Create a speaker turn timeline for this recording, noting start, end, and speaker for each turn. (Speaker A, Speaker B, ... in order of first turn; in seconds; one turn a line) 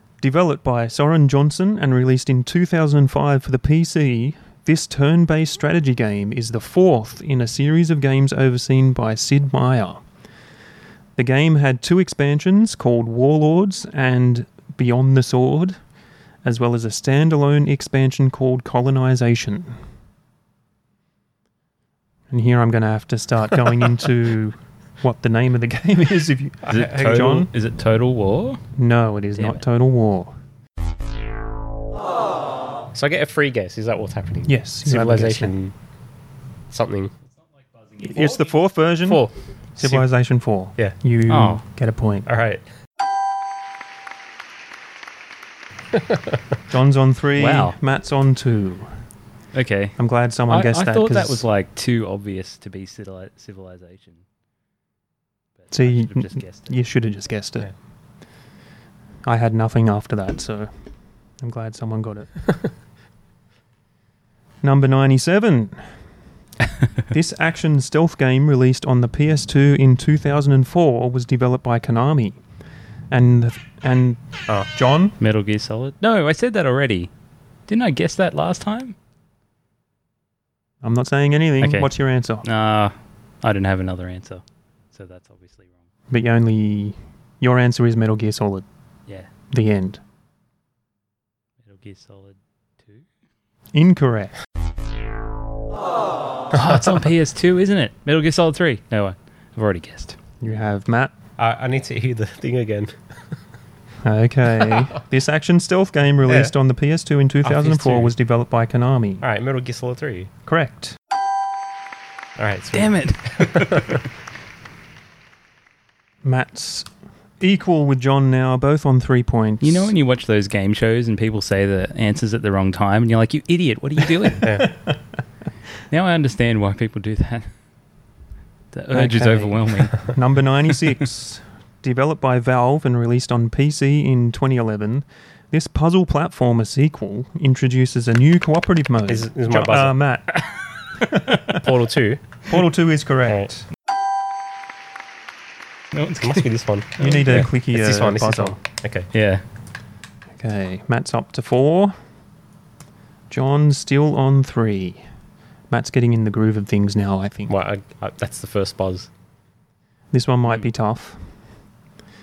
Speaker A: 0.2-10.0
Speaker A: 11.2-15.8
Speaker A: 16.4-19.7
Speaker A: 22.3-27.5
Speaker B: 26.7-27.3
Speaker C: 26.7-28.7
Speaker A: 28.8-30.3
Speaker B: 32.9-35.7
Speaker A: 34.5-35.5
Speaker B: 36.7-37.1
Speaker C: 37.6-38.6
Speaker A: 38.0-42.3
Speaker B: 39.0-40.0
Speaker C: 41.3-41.6
Speaker B: 42.2-42.6
Speaker A: 46.7-48.9
Speaker C: 47.4-47.8
Speaker C: 49.5-54.2
Speaker A: 50.0-51.4
Speaker C: 55.6-56.7
Speaker A: 55.7-57.7
Speaker A: 59.2-60.7
Speaker A: 61.4-62.5
Speaker A: 64.6-66.0
Speaker A: 67.1-72.4
Speaker A: 73.1-75.2
Speaker C: 75.2-77.1
Speaker C: 77.7-78.9
Speaker A: 80.8-82.5
Speaker C: 81.6-81.9
Speaker C: 82.4-85.7
Speaker A: 86.1-88.6
Speaker A: 89.5-90.0
Speaker C: 91.6-93.0
Speaker A: 93.7-94.3
Speaker C: 96.5-100.2
Speaker A: 100.4-101.1
Speaker B: 101.4-103.0
Speaker A: 104.0-109.2
Speaker B: 106.2-106.5
Speaker B: 107.4-108.1
Speaker B: 109.2-110.3
Speaker A: 110.4-111.0
Speaker B: 112.3-113.9
Speaker C: 112.7-114.0
Speaker A: 116.2-119.9
Speaker C: 119.6-124.7
Speaker B: 124.4-124.7
Speaker C: 125.9-127.5
Speaker C: 128.7-130.1
Speaker A: 128.9-140.5
Speaker B: 139.1-140.0
Speaker A: 141.1-141.6
Speaker B: 141.5-142.3
Speaker A: 142.4-143.7
Speaker C: 145.9-146.4
Speaker B: 146.2-149.1
Speaker A: 147.0-148.6
Speaker C: 149.1-149.4
Speaker A: 150.4-152.0
Speaker A: 153.3-155.0
Speaker A: 155.7-157.5
Speaker B: 157.5-159.1
Speaker A: 160.1-161.3